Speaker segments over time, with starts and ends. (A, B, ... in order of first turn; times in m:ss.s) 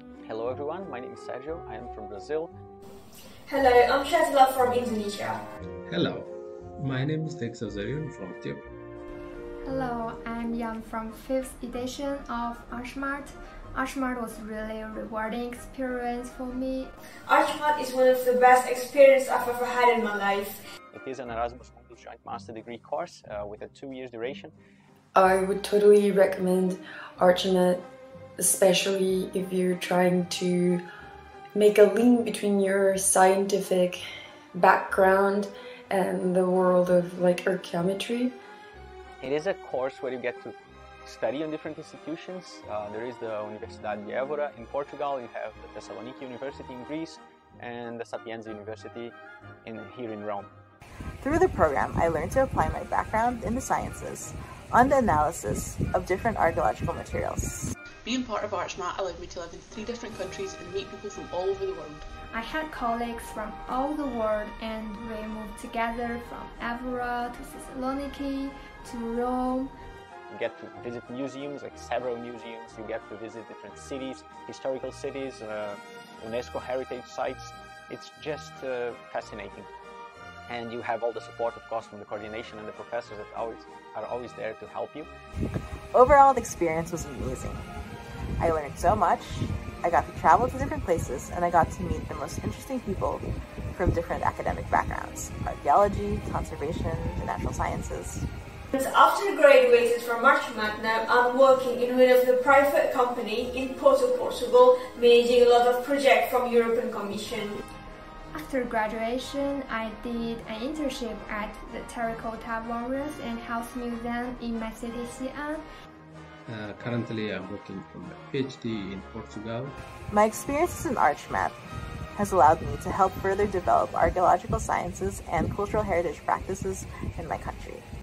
0:00.2-0:02.5 A
0:03.5-0:05.4 B
0:05.9-0:08.7 C
0:09.6-0:16.9 D
0:17.3-0:20.6 B
0:20.9-0:24.5 A
0:25.1-0:27.8 E
0:28.4-0:30.8 E
0:31.5-0:34.0 E
0:34.5-0:38.3 E
0:39.2-0:50.5 A
0:51.2-0:57.7 F
0:58.0-1:02.0 G
1:02.3-1:09.7 D
1:10.3-1:19.7 A
1:20.5-1:25.1 A
1:25.9-1:27.7 F
1:28.4-1:38.2 F
1:38.8-1:47.6 B
1:48.3-1:55.6 D
1:56.4-1:59.8 C
2:00.1-2:01.6 F
2:02.2-2:07.8 F